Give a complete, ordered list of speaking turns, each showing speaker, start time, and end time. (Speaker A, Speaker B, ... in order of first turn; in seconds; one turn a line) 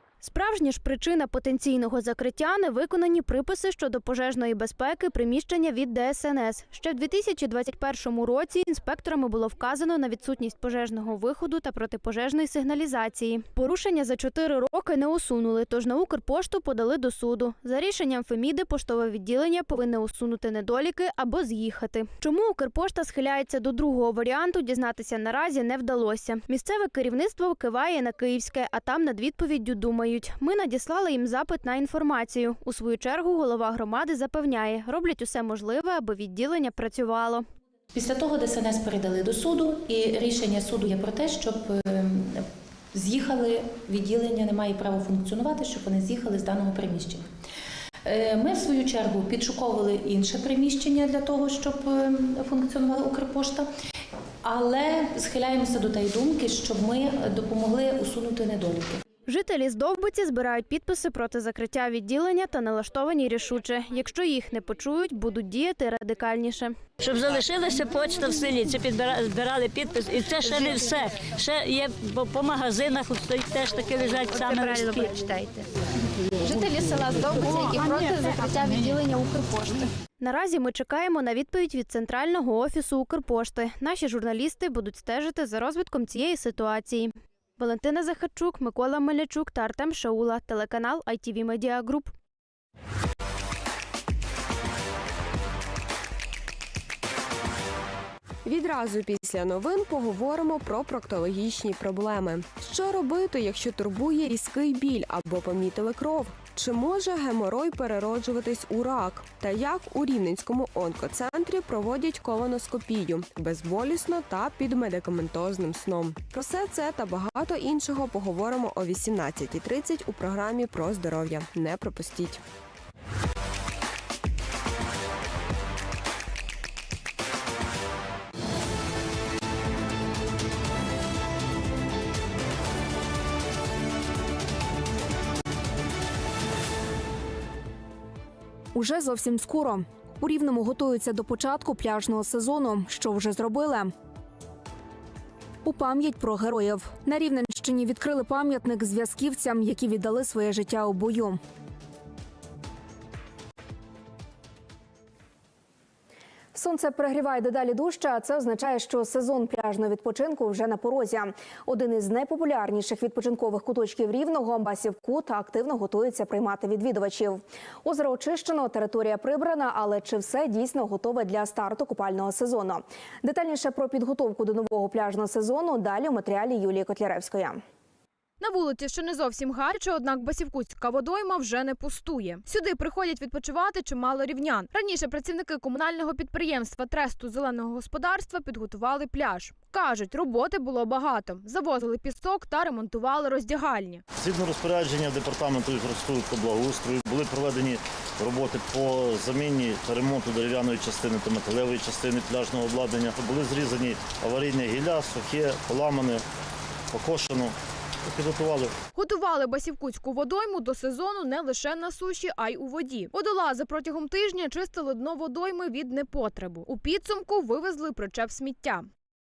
Speaker A: 0.2-37.4
Speaker B: 37.9-47.3
Speaker B: 48.0-53.7
Speaker B: 54.4-59.0
Speaker A: 59.2-66.8
Speaker C: 67.0-75.4
Speaker D: 67.0-70.9
Speaker D: 72.7-73.0
Speaker D: 74.3-74.6
Speaker A: 77.6-79.2
Speaker A: 80.2-92.1
Speaker E: 98.5-122.4
Speaker F: 138.7-143.9
Speaker F: 145.6-151.4
Speaker F: 156.5-177.6
Speaker G: 178.4-194.0
Speaker D: 194.2-206.2
Speaker D: 206.9-207.5
Speaker D: 208.1-208.7
Speaker G: 208.9-218.9